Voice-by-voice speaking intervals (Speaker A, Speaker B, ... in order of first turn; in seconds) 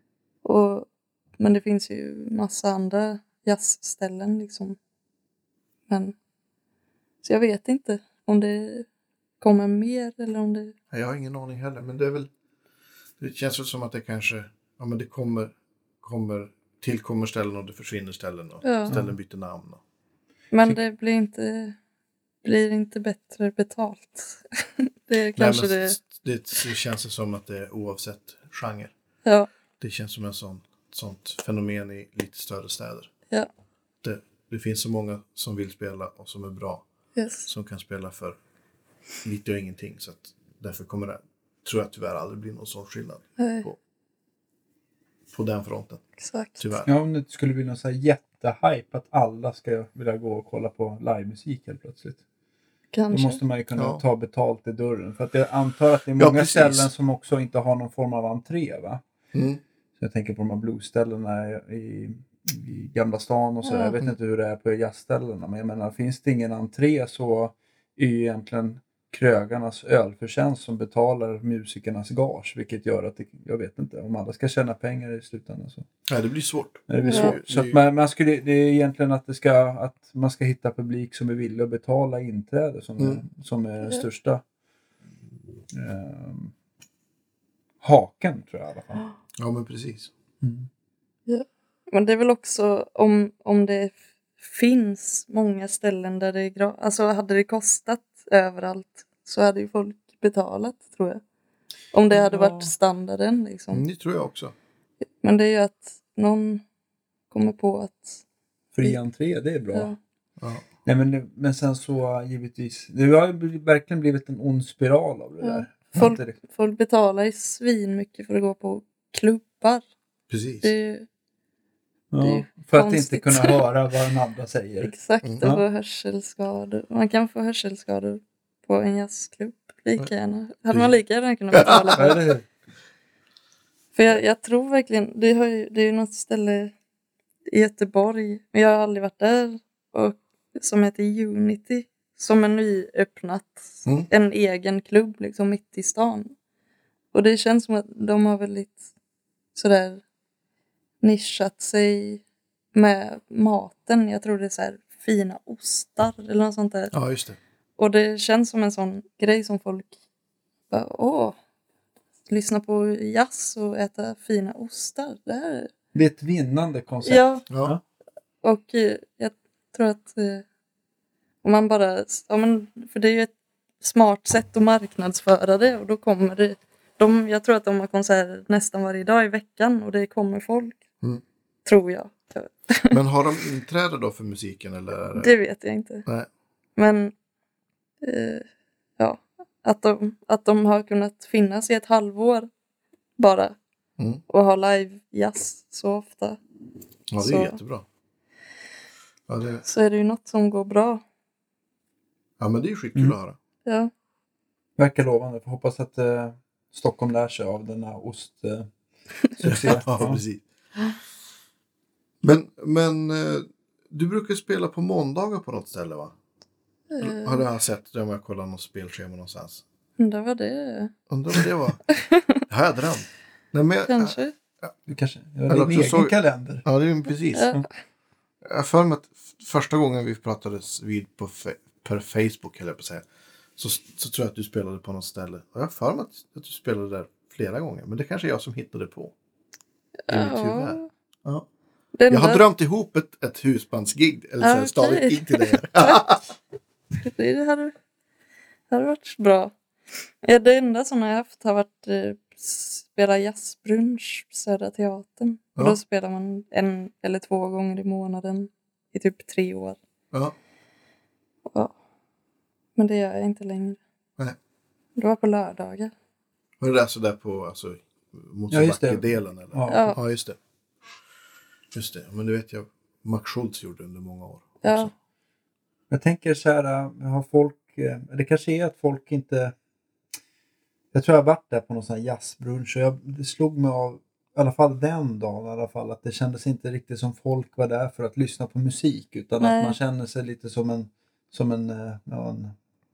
Speaker A: 0.4-4.8, 5.9-6.2, 7.2-8.9, 9.4-10.7, 18.6-18.9, 20.5-21.8, 22.4-24.4, 25.1-26.0, 37.1-37.5, 43.4-43.7, 46.2-46.6, 52.9-53.4, 63.6-63.9, 77.0-77.4, 91.3-101.2, 101.9-103.8, 105.2-106.6, 107.3-108.2, 115.4-119.8, 120.6-121.1, 122.2-123.6, 124.8-132.2, 133.9-136.7, 137.5-146.3, 147.1-148.8, 149.5-150.0, 151.0-156.9, 157.8-159.9, 160.7-161.4, 162.3-165.7, 167.0-167.4, 168.4-170.4, 171.4-180.8, 181.6-183.0, 185.2-186.1, 186.8-187.1, 188.0-188.4, 189.0-192.5, 193.2-193.6, 194.3-196.4, 197.2-197.6, 199.6-201.0, 203.6-203.9, 216.9-217.4, 220.0-222.4, 223.8-224.3, 227.3-227.6, 240.1-240.9, 241.9-242.4, 244.4-246.2, 247.0-247.7, 248.7-249.5, 250.2-259.8, 261.5-261.7, 262.8-263.8, 264.9-265.9, 269.7-270.0, 274.6-274.9, 289.4-289.8
Speaker B: 10.9-12.3, 13.2-19.8, 25.4-28.9, 29.8-33.1, 34.0-36.8, 37.5-38.4, 39.2-43.8, 45.3-46.0, 46.6-46.9, 53.7-54.0, 56.2-56.9, 59.3-59.6, 76.1-77.8, 89.4-90.1, 103.7-104.5, 110.4-110.6, 120.3-120.7, 131.5-132.2, 156.9-157.4, 167.5-167.7, 182.9-185.3, 197.1-197.8, 199.3-199.6, 202.4-203.4, 209.4-210.4, 212.2-216.1, 217.0-219.6, 221.1-221.8, 222.5-224.7, 225.5-227.5, 228.4-233.1, 233.6-239.1, 240.1-241.5, 242.1-246.2, 266.6-270.4, 271.7-274.9
Speaker C: 46.9-52.2, 53.1-59.0, 60.0-75.9, 76.9-84.4, 85.7-86.5, 87.8-89.0, 90.4-90.7, 102.1-102.7, 108.7-109.9, 110.8-116.3, 122.1-125.6, 131.9-132.4, 165.9-167.8, 204.8-208.7, 209.3-210.2, 224.9-226.7, 268.5-270.0, 275.9-279.5, 280.9-292.5